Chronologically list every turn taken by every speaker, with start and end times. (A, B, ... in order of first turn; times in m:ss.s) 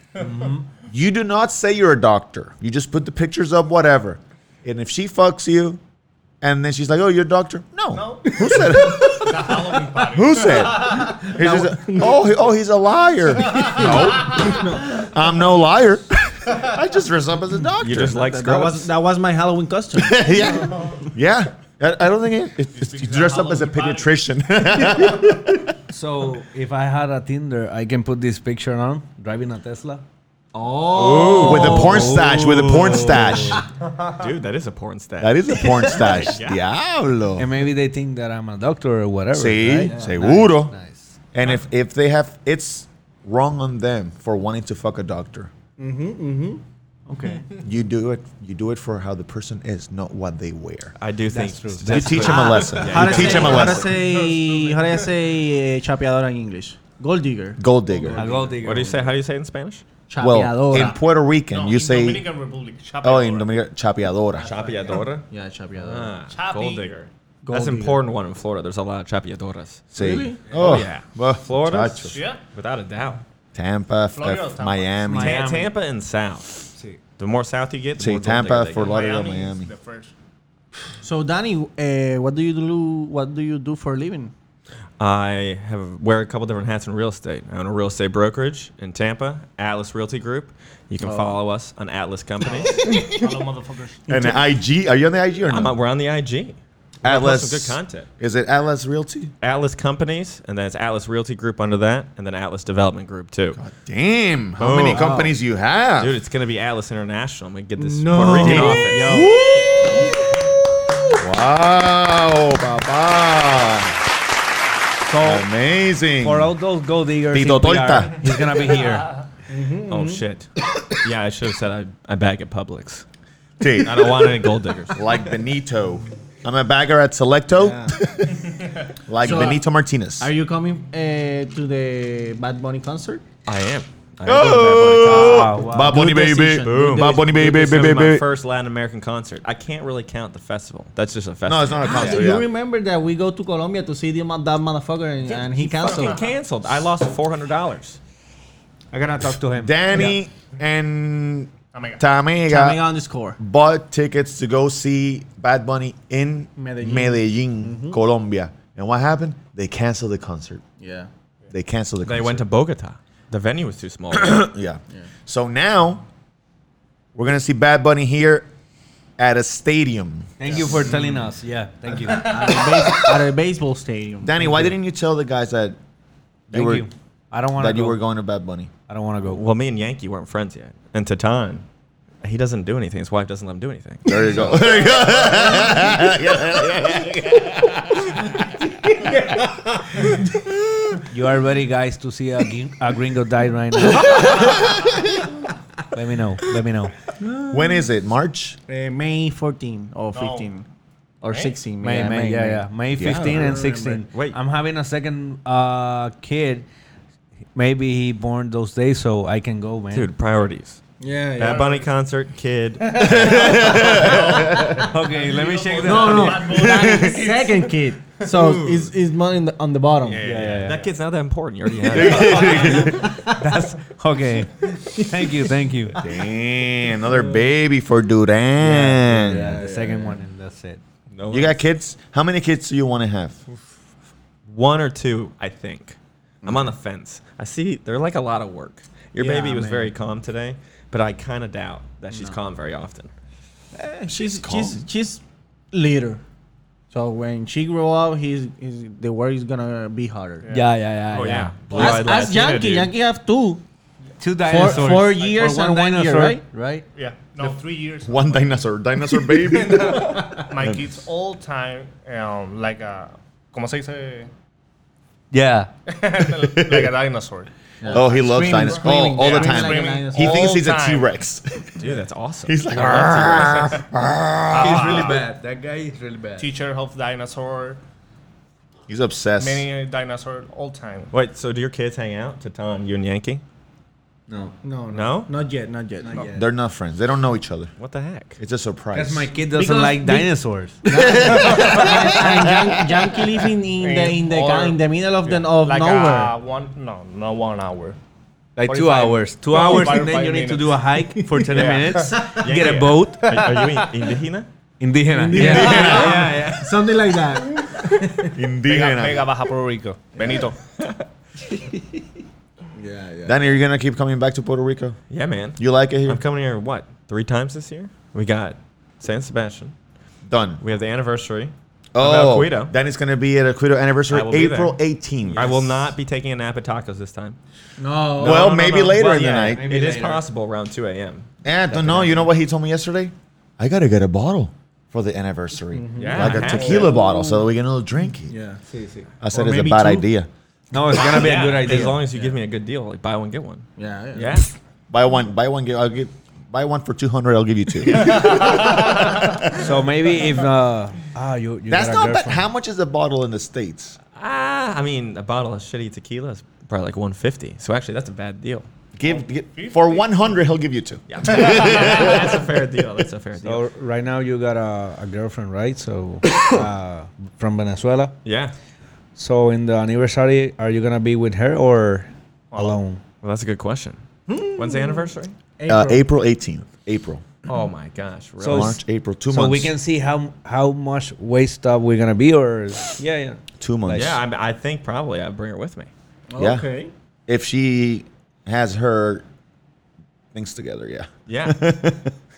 0:00.2-0:00.6 A
0:00.9-0:05.8 B
0:06.4-0:18.4 B
0:08.0-0:11.2 C
0:10.8-0:12.1 D
0:13.6-0:14.9 D
0:17.8-0:18.9 E
0:18.0-0:20.3 D
0:20.0-0:25.7 B
0:22.7-0:24.1 C
0:25.9-0:30.0 A
0:30.5-0:32.0 D
0:30.9-0:33.4 E
0:31.1-0:33.6 A
0:31.3-0:33.6 B
0:34.0-0:36.6 E
0:35.2-0:37.5 B
0:37.4-0:41.1 A
0:39.3-0:40.7 B
0:39.9-0:40.2 D
0:41.3-0:45.5 B
0:45.8-0:47.5 D
0:47.6-0:50.9 B
0:51.0-0:53.9 E
0:51.3-0:52.4 A
0:51.8-0:54.0 B
0:52.1-0:58.6 D
0:53.3-0:55.1 C
0:57.6-0:58.2 B
0:58.1-0:59.1 A
0:58.6-0:59.8 E
1:00.1-1:01.0 D
1:00.2-1:02.3 B
1:01.5-1:03.6 C
1:03.0-1:04.5 B
1:04.4-1:09.8 E
1:04.6-1:06.1 D
1:06.3-1:06.9 C
1:07.4-1:08.0 D
1:09.9-1:12.2 B
1:10.0-1:10.4 D
1:10.5-1:13.2 E
1:12.1-1:12.4 C
1:13.5-1:15.4 B
1:14.1-1:14.9 C
1:15.0-1:15.7 A
1:15.1-1:19.0 E
1:18.0-1:19.7 B
1:18.8-1:20.1 C
1:21.0-1:24.3 D
1:25.0-1:32.8 E
1:31.0-1:31.4 D
1:32.4-1:34.0 C
1:32.7-1:33.4 D
1:34.0-1:34.4 D
1:34.1-1:35.8 B
1:35.5-1:38.1 E
1:37.0-1:39.3 B
1:39.4-1:43.6 E
1:43.6-1:46.2 B
1:44.6-1:45.2 E
1:44.9-1:45.3 D
1:46.0-1:49.2 E
1:47.8-1:49.2 D
1:48.2-1:49.4 A
1:48.3-1:54.0 B
1:55.1-1:55.4 A
1:55.1-1:56.5 B
1:56.2-1:59.1 A
1:57.3-1:58.2 B
1:59.5-2:00.2 D
1:59.9-2:03.0 E
2:03.6-2:10.3 B
2:03.8-2:05.0 E
2:07.6-2:07.9 D
2:09.2-2:09.6 D
2:10.2-2:13.2 D
2:13.4-2:15.5 E
2:14.2-2:18.2 B
2:15.0-2:16.0 A
2:15.7-2:17.3 D
2:16.5-2:22.3 E
2:21.4-2:22.5 B
2:21.8-2:26.2 D
2:25.7-2:28.0 E
2:28.9-2:30.1 A
2:29.6-2:32.8 B
2:31.7-2:32.0 C
2:32.5-2:33.4 D
2:33.4-2:40.6 B
2:36.6-2:38.0 D
2:40.8-2:41.1 D
2:41.5-2:42.4 B
2:42.0-2:44.5 E
2:44.1-2:46.0 B
2:47.1-2:48.5 B
2:49.2-2:50.7 B
2:50.4-2:52.7 A
2:52.0-2:54.7 D
2:52.8-2:53.2 B
2:54.2-2:55.8 B
2:56.5-2:56.8 B
2:56.5-2:58.0 A
2:57.6-2:58.7 B
2:58.9-2:59.4 A
2:59.3-3:01.6 E
3:02.2-3:04.6 E
3:04.0-3:08.7 B
3:09.0-3:09.4 D
3:10.0-3:10.7 B
3:11.1-3:14.5 A
3:14.0-3:14.5 D
3:15.9-3:16.9 A
3:17.2-3:17.7 D
3:17.4-3:18.6 B
3:18.7-3:20.6 D
3:20.1-3:20.5 C
3:21.2-3:24.0 D
3:21.8-3:26.6 A
3:22.9-3:23.6 B
3:24.1-3:24.4 E
3:27.5-3:30.1 A
3:29.9-3:30.8 E
3:31.0-3:31.8 D
3:31.4-3:34.1 E
3:31.4-3:31.9 C
3:33.0-3:34.8 B
3:33.8-3:37.6 C
3:34.8-3:36.5 A
3:35.8-3:40.2 D
3:36.6-3:37.3 B
3:38.3-3:38.9 E
3:40.0-3:43.1 E
3:40.2-3:40.8 A
3:41.8-3:43.1 B
3:42.3-3:46.0 A
3:42.9-3:43.2 D
3:46.0-3:49.6 B
3:48.6-3:50.8 A
3:49.3-3:50.2 D
3:51.1-3:51.6 E
3:51.3-3:53.4 B
3:54.5-4:03.1 E
3:56.4-3:56.7 D
3:59.2-3:59.9 D
4:03.7-4:06.2 D
4:04.1-4:04.8 B
4:06.9-4:10.5 D
4:10.4-4:10.7 C
4:10.5-4:11.6 A
4:11.1-4:12.9 E
4:11.7-4:12.0 C
4:11.7-4:13.6 D
4:14.2-4:16.8 A
4:14.4-4:16.4 D
4:14.6-4:15.5 C
4:16.9-4:18.4 C
4:18.0-4:20.8 B
4:19.3-4:24.3 C
4:25.3-4:25.7 A
4:25.9-4:31.1 C
4:26.3-4:26.9 B
4:27.8-4:30.5 D
4:27.9-4:31.9 B
4:31.8-4:33.8 E
4:32.4-4:35.1 B
4:34.5-4:35.2 C
4:34.5-4:36.5 A
4:36.4-4:37.8 C
4:38.9-4:39.7 B
4:39.4-4:41.1 C
4:41.1-4:43.4 E
4:44.3-4:44.6 A
4:44.6-4:46.3 D
4:44.9-4:45.3 E
4:46.0-4:46.4 A
4:46.3-4:47.7 B
4:47.8-4:48.4 E
4:48.4-4:49.3 B
4:48.9-4:51.9 A
4:49.5-4:50.3 D
4:50.8-4:56.3 D
4:51.1-4:53.1 B
4:51.2-4:51.9 C
4:53.8-4:58.0 C
4:58.6-5:03.4 A
4:58.6-5:00.9 C
5:01.5-5:04.5 E
5:01.5-5:02.3 C
5:01.6-5:03.8 D
5:04.8-5:06.5 A
5:05.1-5:08.4 D
5:05.3-5:06.3 B
5:08.2-5:09.3 B
5:08.6-5:10.6 C
5:10.8-5:11.0 E
5:12.8-5:13.5 D
5:13.2-5:15.0 B
5:15.1-5:19.7 E
5:15.6-5:16.2 B
5:20.3-5:20.6 B
5:20.6-5:22.7 E
5:21.9-5:25.6 B
5:24.1-5:24.8 E
5:25.3-5:25.6 A
5:25.3-5:27.4 E
5:27.8-5:28.5 D
5:28.2-5:31.2 E
5:28.2-5:29.6 B
5:29.5-5:30.2 A
5:31.4-5:38.4 B
5:31.7-5:32.3 A
5:35.8-5:37.5 D
5:36.0-5:37.0 E
5:36.1-5:36.5 A
5:38.3-5:38.6 D
5:38.7-5:39.1 A
5:39.2-5:40.3 B
5:39.3-5:40.0 D
5:40.7-5:42.1 A
5:40.9-5:44.5 E
5:43.8-5:44.5 D
5:44.9-5:49.7 B
5:48.1-5:48.8 C
5:49.5-5:52.4 A
5:51.7-5:54.0 B
5:54.2-5:58.7 E
5:59.0-6:02.4 B
5:59.4-6:00.1 C
6:01.1-6:03.6 E
6:01.5-6:02.1 C
6:03.4-6:08.2 A
6:08.2-6:08.5 E
6:09.2-6:13.0 A
6:12.5-6:12.8 C
6:13.2-6:15.4 E
6:14.3-6:15.0 D
6:15.6-6:16.1 D
6:15.7-6:17.2 B
6:17.4-6:18.8 E
6:18.4-6:24.1 A
6:18.4-6:19.7 B
6:23.6-6:24.2 B
6:23.9-6:25.9 E
6:26.3-6:26.9 D
6:26.4-6:26.7 B
6:27.3-6:29.2 B
6:30.3-6:32.1 B
6:31.3-6:31.6 E